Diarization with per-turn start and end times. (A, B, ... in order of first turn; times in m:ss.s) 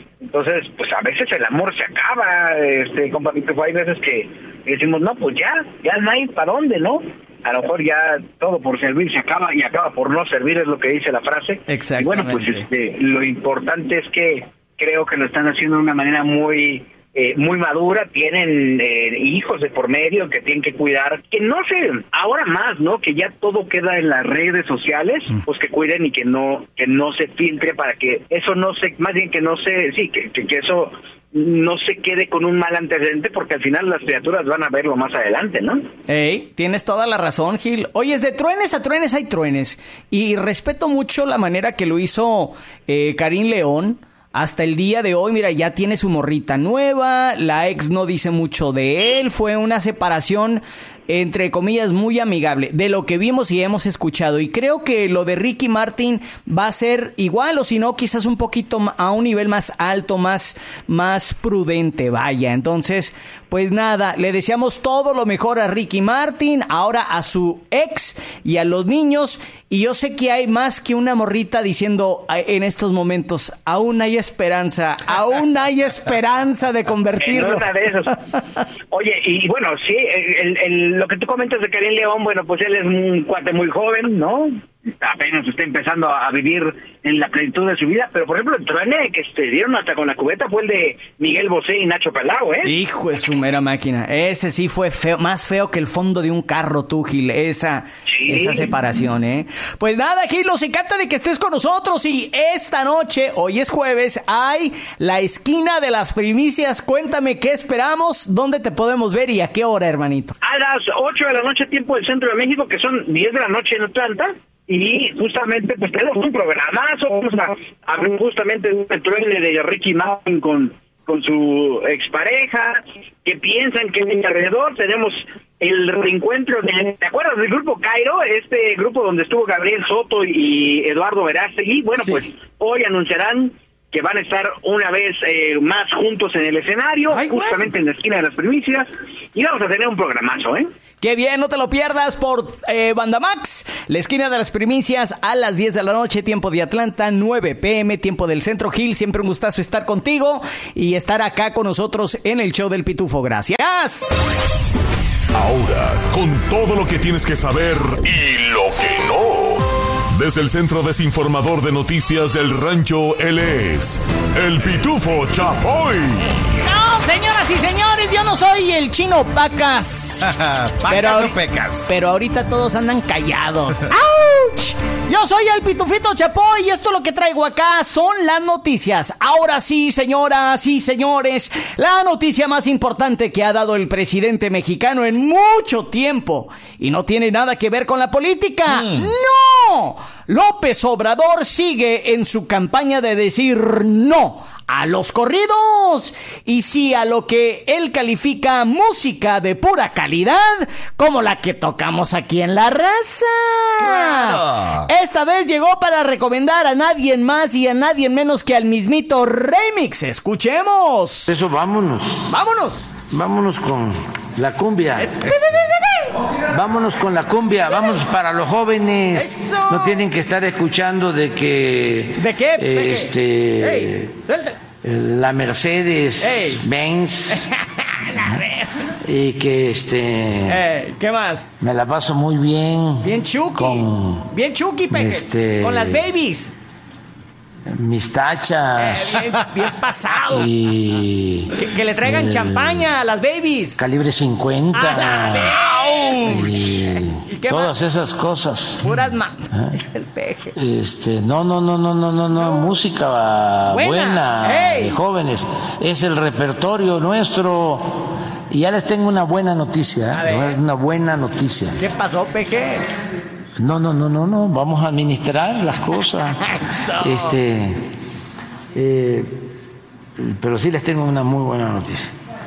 0:00.2-0:35.8 A
0:11.7-0:12.6 B
0:36.1-1:17.6 B
1:17.2-1:18.2 A
1:18.9-1:32.7 A
1:32.6-1:50.3 B
1:38.1-1:38.7 A
1:50.4-2:20.7 A
2:17.1-2:17.7 B
2:21.0-2:34.1 B
2:35.3-2:46.5 C
2:46.6-2:50.3 B
2:50.2-2:51.9 D
2:50.9-3:31.3 B
3:08.7-3:09.1 D
3:23.8-3:24.9 D
3:31.3-3:32.4 E
3:32.3-3:32.9 B
3:33.1-3:35.6 E
3:35.0-3:36.1 B
3:36.5-3:44.1 E
3:39.1-3:40.0 B
3:42.2-3:44.6 B
3:44.8-3:47.5 E
3:46.2-3:46.6 B
3:47.3-3:48.9 B
3:49.0-3:50.6 E
3:50.5-3:51.5 B
3:51.6-3:54.3 E
3:53.0-3:56.5 B
3:54.9-3:56.0 E
3:57.7-3:59.4 E
3:58.8-4:00.5 B
4:00.3-4:02.9 E
4:01.5-4:03.8 B
4:03.8-4:05.6 E
4:04.7-4:06.7 B
4:05.5-4:06.6 D
4:06.2-4:08.9 E
4:07.2-4:07.8 B
4:08.8-4:10.5 B
4:09.5-4:09.8 E
4:10.5-4:21.8 E
4:13.7-4:15.0 B
4:20.1-4:20.6 B
4:21.8-4:22.8 B
4:23.6-4:27.8 E
4:26.4-4:27.4 B
4:28.7-4:29.4 E
4:30.2-4:32.1 E